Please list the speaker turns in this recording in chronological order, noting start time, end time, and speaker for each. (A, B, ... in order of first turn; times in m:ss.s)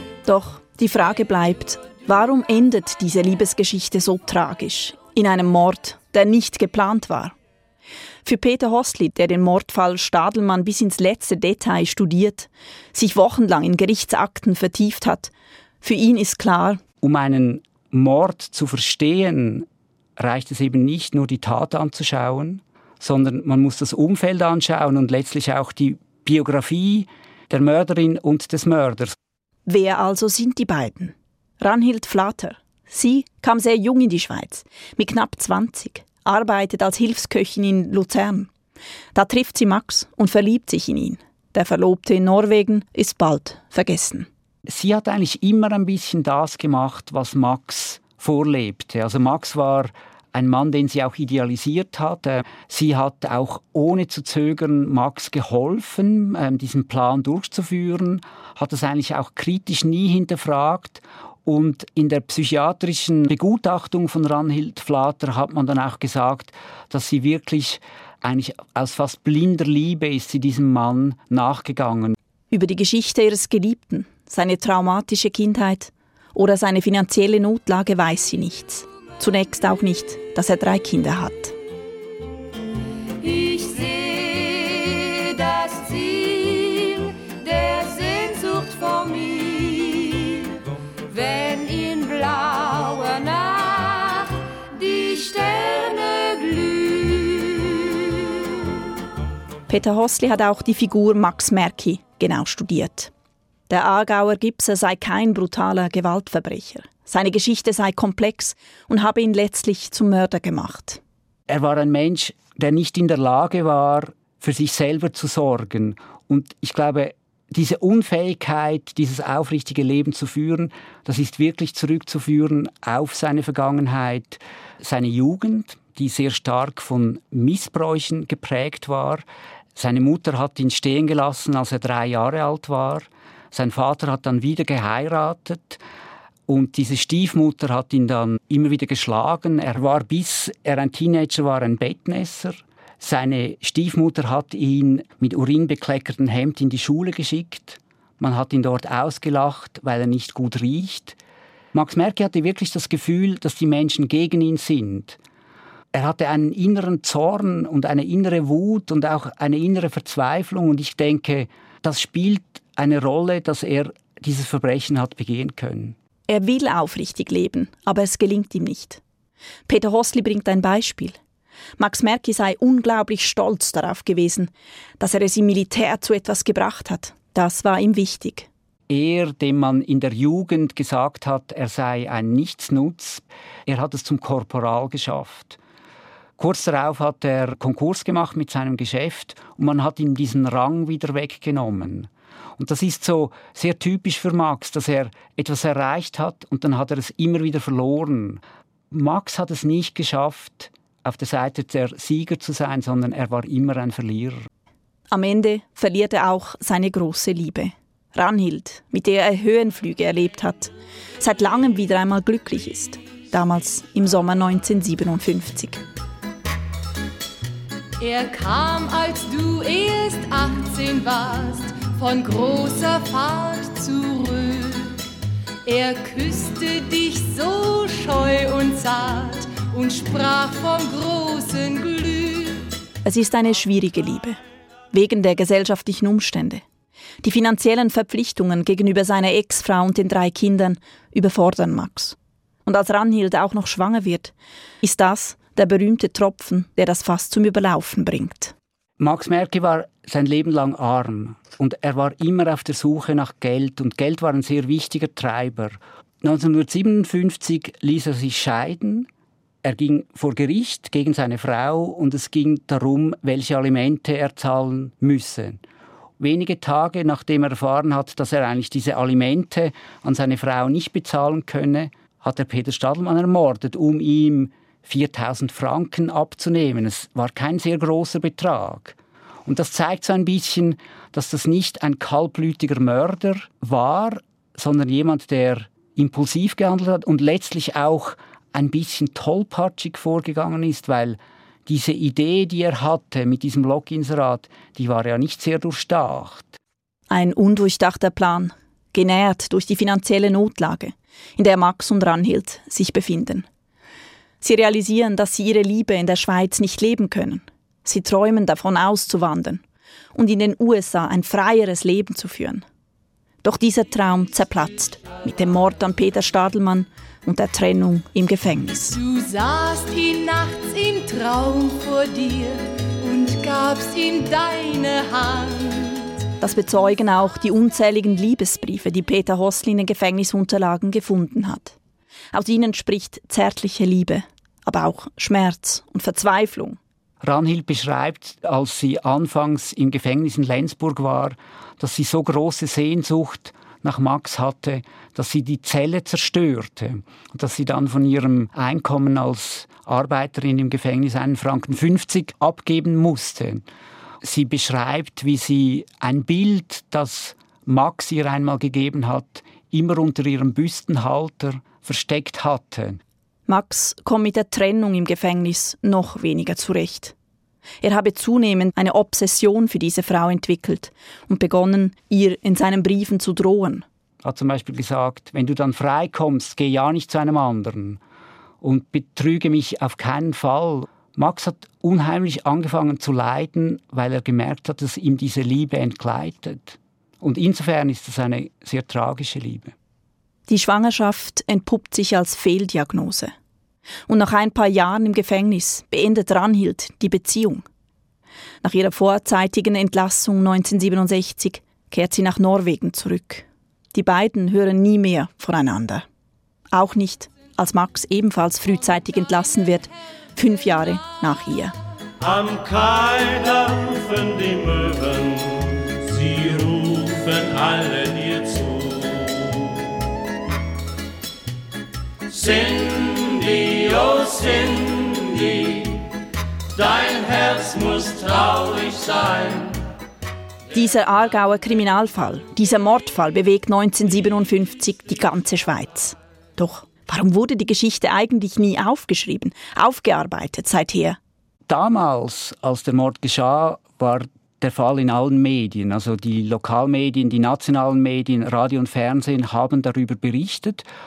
0:00.3-0:07.4 A
0:08.2-0:16.8 A
0:17.0-0:29.2 B
0:29.7-0:38.5 A
0:39.2-0:44.3 A
0:44.7-1:12.2 B
1:12.5-1:21.6 A
1:23.2-1:30.5 C
1:31.1-1:37.9 C
1:39.7-1:43.1 A
1:43.7-1:51.0 A
1:51.5-2:15.8 B
2:16.5-2:31.2 B
2:31.7-2:35.2 B
2:35.9-2:46.0 B
2:46.3-2:49.0 A
2:49.7-2:51.2 A
2:51.8-2:58.5 A
2:58.9-3:05.6 B
3:06.4-3:24.5 B
3:25.1-3:35.8 A
3:38.0-3:45.0 C
3:45.6-3:52.7 C
3:53.0-3:54.4 A
3:54.9-3:56.6 A
3:57.2-4:08.5 A
4:09.0-4:19.1 B
4:19.6-4:25.6 B
4:26.2-4:56.6 B
4:57.1-5:03.5 A
5:04.4-5:09.6 A
5:10.2-5:12.6 A
5:13.4-5:19.0 A
5:18.9-5:26.1 C
5:26.4-5:31.8 A
5:32.3-5:36.8 A
5:37.2-5:53.6 B
5:54.2-6:03.0 B
6:03.5-6:07.1 A
6:07.8-6:13.8 A
6:14.2-6:18.0 B
6:18.6-6:29.7 B
6:30.5-6:33.3 A
6:34.1-6:37.6 A
6:38.6-6:46.0 A
6:46.7-6:51.7 A
6:52.2-6:55.4 D
6:56.1-6:59.1 D
7:02.3-7:05.9 D
7:06.8-7:09.7 D
7:10.7-7:21.2 A
7:21.7-7:30.9 B